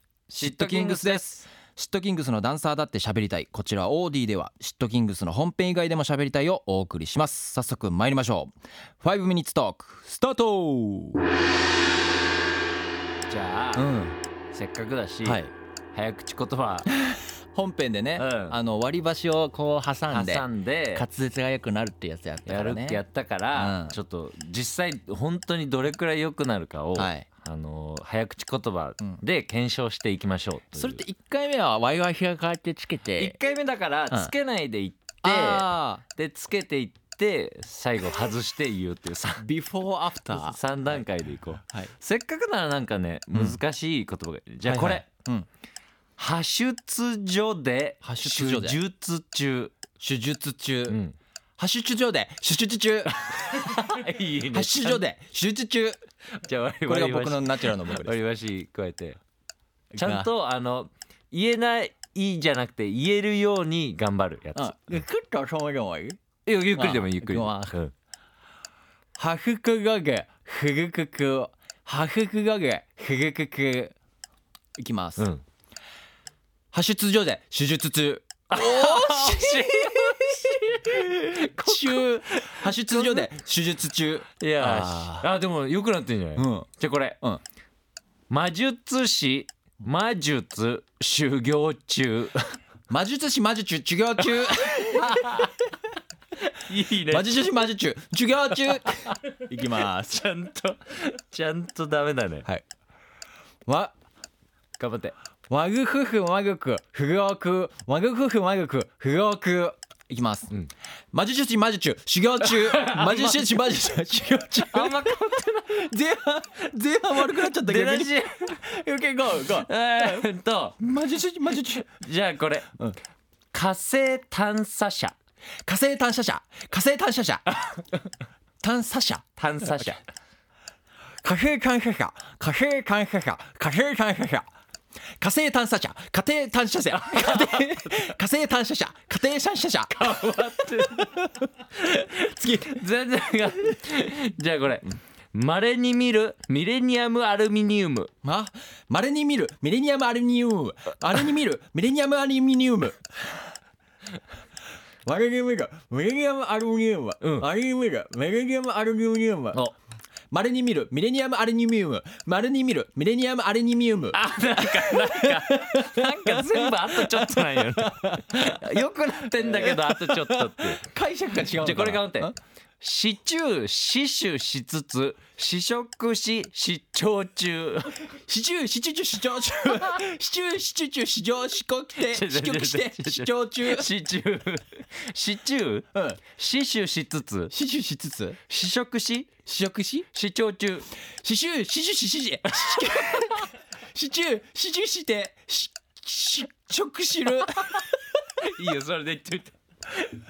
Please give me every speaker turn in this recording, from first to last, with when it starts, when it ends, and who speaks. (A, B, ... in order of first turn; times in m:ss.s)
0:00.3-0:01.5 A
0:00.3-0:11.2 B
0:13.3-0:13.9 A
0:13.8-0:14.2 B
0:14.5-0:15.4 A
0:15.2-0:15.5 B
0:15.9-0:16.9 A
0:16.9-0:23.0 B
0:18.2-0:18.6 A
0:20.1-0:21.0 A
0:22.5-0:31.0 A
0:23.5-0:24.0 B
0:27.0-0:27.3 B
0:30.7-0:33.4 B
0:33.2-0:39.5 A
0:35.2-0:36.0 B
0:39.4-0:40.6 B
0:40.3-0:45.0 A
0:43.3-0:43.6 B
0:44.7-0:45.5 B
0:46.2-0:49.7 A
0:48.0-0:48.8 B
0:50.0-0:51.0 B
0:50.9-0:51.2 A
0:51.6-0:53.8 B
0:53.1-0:55.0 A
0:54.5-0:56.0 B
0:56.4-0:59.2 A
0:56.9-0:58.2 B
0:59.9-1:00.3 B
1:00.0-1:05.0 A
1:04.6-1:06.2 B
1:06.4-1:07.9 A
1:06.7-1:07.7 B
1:09.2-1:13.9 B
1:14.8-1:15.3 B
1:15.2-1:15.4 A
1:16.7-1:25.3 B
1:18.5-1:23.3 A
1:24.4-1:27.2 A
1:26.4-1:26.7 B
1:28.3-1:32.5 A
1:32.9-1:35.5 B
1:34.9-1:35.5 A
1:36.5-1:37.5 A
1:37.0-1:40.2 B
1:38.7-1:42.5 A
1:43.7-1:43.9 B
1:44.8-1:45.1 A
1:45.5-2:00.2 B
1:52.4-1:53.6 A
1:54.6-1:55.9 A
1:57.2-1:58.6 A
1:59.4-2:00.8 A
2:00.8-2:01.9 B
2:01.5-2:02.8 A
2:03.5-2:05.2 A
2:05.7-2:07.6 B
2:07.6-2:07.8 A
2:08.6-2:10.0 B
2:09.4-2:10.0 A
2:11.2-2:14.5 B
2:15.2-2:21.3 B
2:17.1-2:17.8 A
2:19.9-2:28.1 A
2:28.2-2:33.4 B
2:35.0-2:39.6 B
2:40.3-2:48.7 B
2:44.1-2:50.8 A
2:49.2-2:52.3 B
2:51.4-2:58.0 A
2:58.1-3:03.9 B
3:02.0-3:07.5 A
3:05.9-3:06.2 B
3:07.5-3:08.4 B
3:08.5-3:09.3 A
3:09.4-3:10.1 B
3:10.1-3:10.9 A
3:11.2-3:17.9 B
3:12.6-3:13.3 A
3:17.5-3:17.9 A
3:18.4-3:20.1 A